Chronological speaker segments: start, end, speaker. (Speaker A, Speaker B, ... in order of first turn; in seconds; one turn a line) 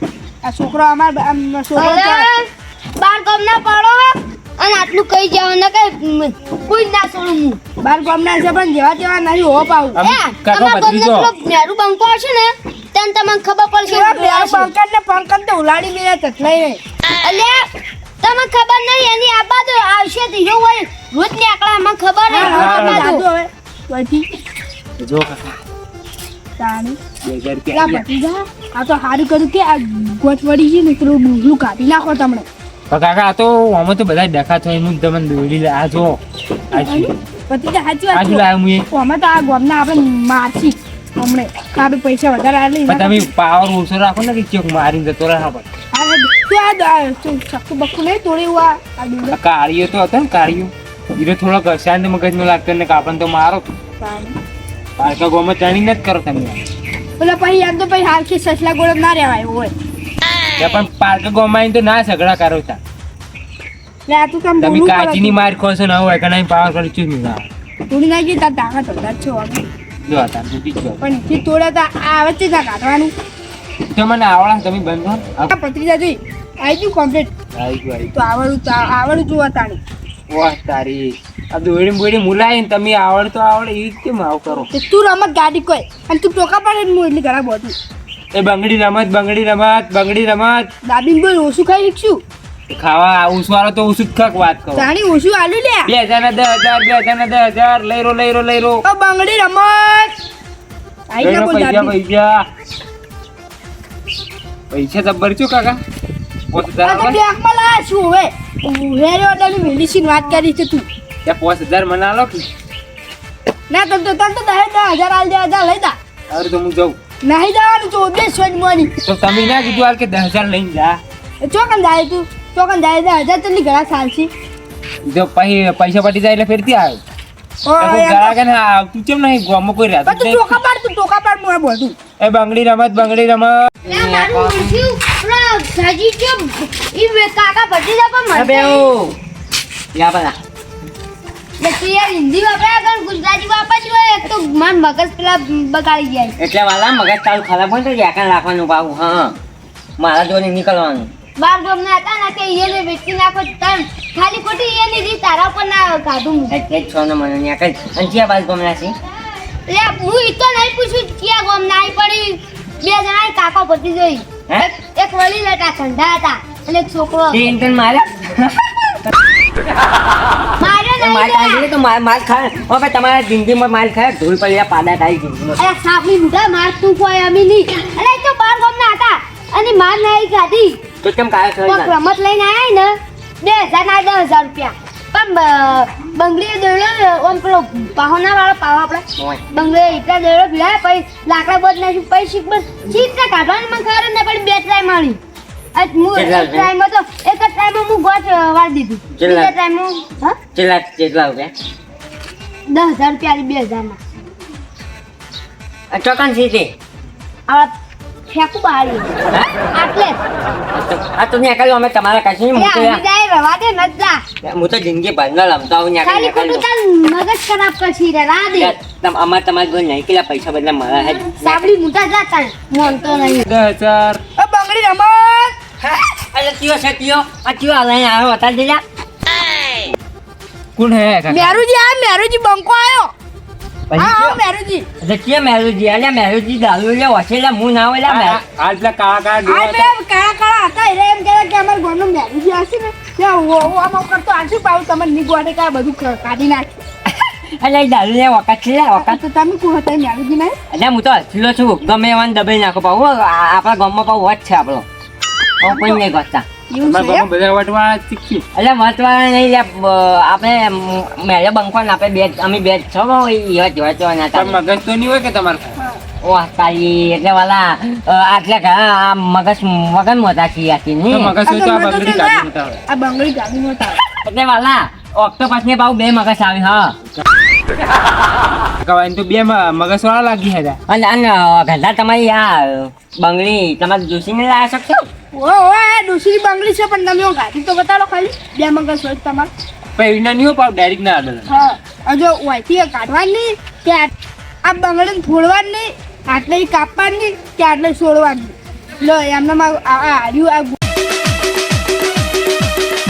Speaker A: 0.4-2.3
Speaker B: 1.8-7.6
Speaker A: 7.8-10.0
Speaker C: 9.9-11.3
Speaker B: 9.9-14.7
Speaker A: 13.9-16.8
Speaker B: 17.2-17.7
Speaker B: 18.2-23.2
Speaker A: 22.3-24.2
Speaker C: 22.4-23.0
Speaker C: 25.0-25.5
Speaker A: 26.6-27.0
Speaker C: 27.2-27.9
Speaker A: 27.7-32.5
Speaker C: 32.9-36.2
Speaker A: 36.7-43.3
Speaker C: 36.7-37.1
Speaker C: 38.1-38.8
Speaker C: 42.9-45.6
Speaker A: 45.9-49.4
Speaker C: 49.3-53.7
Speaker A: 54.0-54.4
Speaker C: 55.0-56.6
Speaker A: 57.2-59.7
Speaker C: 60.6-62.8
Speaker A: 64.1-65.4
Speaker C: 64.6-67.5
Speaker A: 67.9-69.6
Speaker C: 70.1-71.0
Speaker A: 71.0-73.1
Speaker C: 73.9-75.5
Speaker A: 75.5-77.3
Speaker C: 77.5-78.1
Speaker A: 78.1-79.8
Speaker C: 80.3-84.7
Speaker A: 84.5-87.8
Speaker C: 88.3-90.7
Speaker A: 90.8-92.2
Speaker C: 92.7-94.9
Speaker A: 94.8-95.9
Speaker C: 95.9-98.8
Speaker A: 98.8-100.1
Speaker A: 101.1-102.0
Speaker C: 101.2-102.4
Speaker C: 104.7-105.8
Speaker C: 106.5-107.2
Speaker A: 106.8-110.8
Speaker C: 111.2-112.5
Speaker A: 113.7-116.0
Speaker C: 116.3-117.0
Speaker A: 117.2-118.9
Speaker C: 119.0-121.0
Speaker A: 121.4-124.3
Speaker C: 125.0-127.0
Speaker A: 127.6-128.4
Speaker C: 127.8-130.4
Speaker A: 130.1-131.9
Speaker C: 132.2-133.8
Speaker B: 133.8-138.9
Speaker D: 133.9-134.8
Speaker D: 138.3-139.2
Speaker D: 139.9-140.3
Speaker B: 141.6-146.4
Speaker D: 146.4-149.4
Speaker D: 150.0-151.1
Speaker B: 151.4-156.5
Speaker D: 156.5-158.9
Speaker B: 159.7-167.4
Speaker D: 167.3-168.0
Speaker B: 170.6-171.7
Speaker D: 171.0-175.7
Speaker B: 175.6-180.8
Speaker D: 181.0-181.9
Speaker B: 181.6-195.2
Speaker B: 195.7-200.4
Speaker D: 196.1-196.7
Speaker D: 199.2-199.5
Speaker D: 200.6-201.5
Speaker B: 202.7-204.0
Speaker D: 205.9-206.7
Speaker B: 207.5-207.7
Speaker B: 208.3-209.1
Speaker B: 209.7-210.2
Speaker D: 210.7-213.0
Speaker B: 212.5-214.2
Speaker D: 214.4-216.7
Speaker B: 216.0-218.8
Speaker D: 218.6-221.7
Speaker B: 221.1-223.4
Speaker C: 223.5-224.2
Speaker A: 224.4-225.5
Speaker D: 225.9-228.8
Speaker C: 230.8-231.6
Speaker A: 231.3-233.1
Speaker D: 233.9-234.3
Speaker A: 233.9-234.8
Speaker D: 235.0-238.4
Speaker C: 238.0-239.8
Speaker A: 239.4-246.8
Speaker D: 247.6-249.1
Speaker C: 248.3-249.1
Speaker A: 249.0-250.6
Speaker D: 250.7-254.8
Speaker D: 255.6-256.4
Speaker A: 255.6-256.0
Speaker A: 256.7-257.3
Speaker C: 256.8-258.4
Speaker D: 258.5-264.6
Speaker C: 264.3-265.8
Speaker D: 266.2-271.4
Speaker C: 271.1-272.8
Speaker A: 271.4-274.0
Speaker C: 274.3-274.5
Speaker D: 274.5-276.9
Speaker C: 278.8-280.8
Speaker D: 280.9-285.1
Speaker A: 285.3-289.5
Speaker C: 289.9-291.5
Speaker A: 291.5-294.1
Speaker A: 294.6-300.8